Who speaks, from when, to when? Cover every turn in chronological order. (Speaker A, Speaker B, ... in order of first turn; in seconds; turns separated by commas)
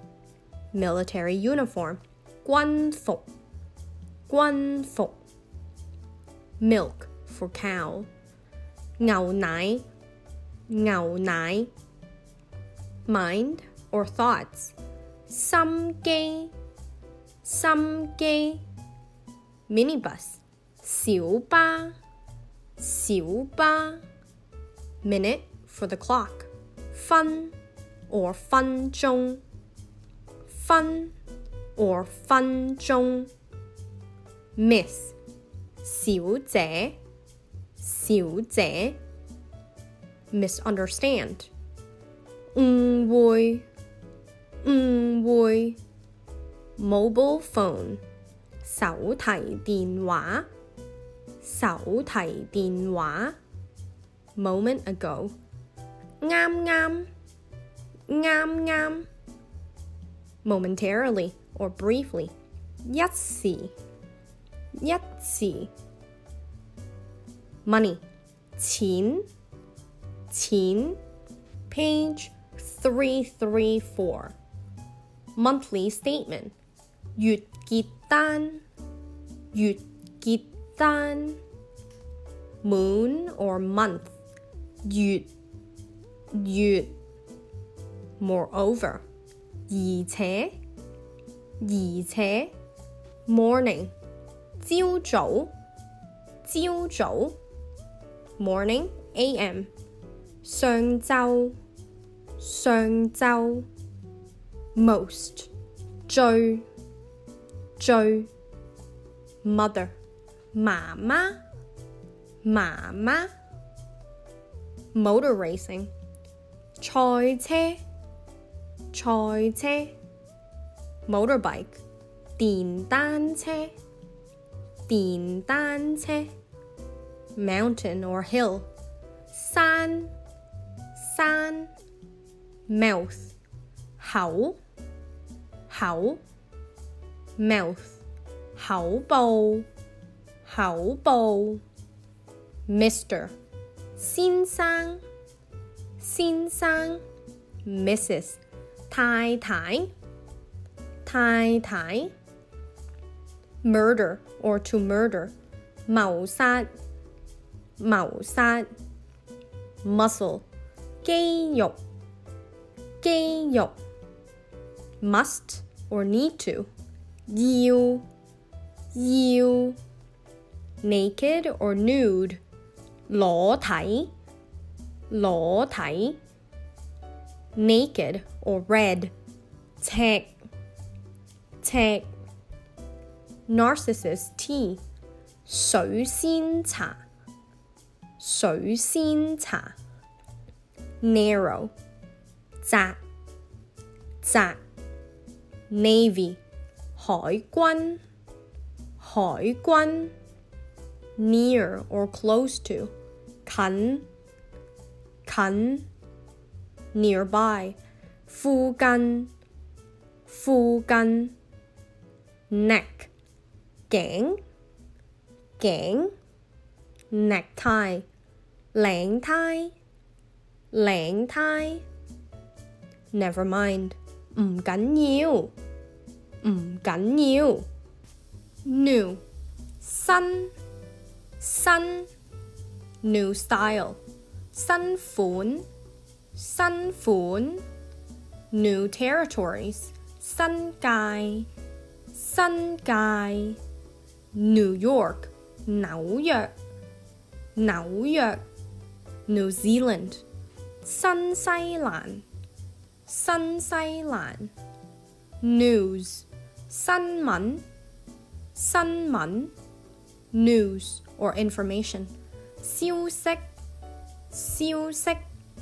Speaker A: 0.7-3.3, Speaker A: 4.3-5.2, Speaker A: 6.6-8.1, Speaker A: 9.0-9.8, Speaker A: 10.7-11.7, Speaker A: 13.1-14.7, Speaker A: 15.3-16.5, Speaker A: 17.4-18.6, Speaker A: 19.7-21.9, Speaker A: 22.8-24.0, Speaker A: 25.0-27.5, Speaker A: 28.1-29.4, Speaker A: 30.5-31.1, Speaker A: 31.8-33.3, Speaker A: 34.6-35.1, Speaker A: 35.8-37.0, Speaker A: 37.8-39.0, Speaker A: 40.3-41.5, Speaker A: 42.5-43.6, Speaker A: 44.6-45.8, Speaker A: 46.8-48.0, Speaker A: 48.6-50.5, Speaker A: 51.4-53.4, Speaker A: 54.4-55.3, Speaker A: 56.2-57.1, Speaker A: 58.1-59.0, Speaker A: 60.4-63.7, Speaker A: 64.8-65.7, Speaker A: 67.6-68.0, Speaker A: 68.5-69.3, Speaker A: 70.3-71.0, Speaker A: 71.7-74.3, Speaker A: 75.3-76.5, Speaker A: 77.2-78.6, Speaker A: 79.5-81.4, Speaker A: 82.6-84.1, Speaker A: 84.8-85.3, Speaker A: 86.3-86.9, Speaker A: 88.2-89.0, Speaker A: 89.7-90.5, Speaker A: 91.6-92.5, Speaker A: 93.2-93.9, Speaker A: 94.6-95.5, Speaker A: 96.4-97.4, Speaker A: 98.4-99.7, Speaker A: 100.4-101.6, Speaker A: 102.4-103.7, Speaker A: 104.7-105.5, Speaker A: 106.1-106.7, Speaker A: 107.8-108.3, Speaker A: 109.4-109.9, Speaker A: 110.5-111.4, Speaker A: 112.4-113.3, Speaker A: 114.9-115.9, Speaker A: 116.8-117.8, Speaker A: 118.9-120.0, Speaker A: 121.1-121.8, Speaker A: 122.4-123.7, Speaker A: 124.9-126.3, Speaker A: 127.3-128.7, Speaker A: 129.3-130.1, Speaker A: 130.9-131.7, Speaker A: 132.7-133.3, Speaker A: 134.0-134.6, Speaker A: 135.7-136.2, Speaker A: 137.4-138.0, Speaker A: 138.6-139.7, Speaker A: 140.4-141.6, Speaker A: 142.7-143.3, Speaker A: 143.9-145.0, Speaker A: 146.0-147.0, Speaker A: 147.6-149.9, Speaker A: 151.1-152.1, Speaker A: 153.6-155.3, Speaker A: 155.9-156.7, Speaker A: 157.8-158.7, Speaker A: 159.8-160.4, Speaker A: 161.0-161.8, Speaker A: 163.0-163.8, Speaker A: 165.0-166.7, Speaker A: 167.3-168.1, Speaker A: 168.9-169.8, Speaker A: 170.8-172.4, Speaker A: 173.1-174.1, Speaker A: 175.1-176.2, Speaker A: 177.5-179.1, Speaker A: 179.8-180.3, Speaker A: 181.6-182.1, Speaker A: 183.5-184.8, Speaker A: 185.4-187.0, Speaker A: 188.2-189.8, Speaker A: 191.0-191.7, Speaker A: 192.6-193.0, Speaker A: 194.2-194.6, Speaker A: 195.7-196.4, Speaker A: 196.9-198.0, Speaker A: 199.0-200.1, Speaker A: 201.2-202.9, Speaker A: 203.4-204.1, Speaker A: 205.2-205.8, Speaker A: 206.9-209.3, Speaker A: 210.2-211.3, Speaker A: 212.5-213.1, Speaker A: 213.9-214.4, Speaker A: 215.6-216.1, Speaker A: 217.1-218.1, Speaker A: 218.7-219.7, Speaker A: 220.7-221.8, Speaker A: 223.1-225.5, Speaker A: 226.4-227.7, Speaker A: 228.6-229.2, Speaker A: 229.8-230.5, Speaker A: 231.4-232.1, Speaker A: 233.0-234.0, Speaker A: 234.5-235.7, Speaker A: 236.3-237.6, Speaker A: 238.5-241.5, Speaker A: 242.1-243.6, Speaker A: 244.3-246.5, Speaker A: 247.6-248.4, Speaker A: 249.3-250.2, Speaker A: 250.8-252.2, Speaker A: 253.1-254.5, Speaker A: 255.4-257.6, Speaker A: 258.5-259.5, Speaker A: 260.3-263.5, Speaker A: 264.3-265.2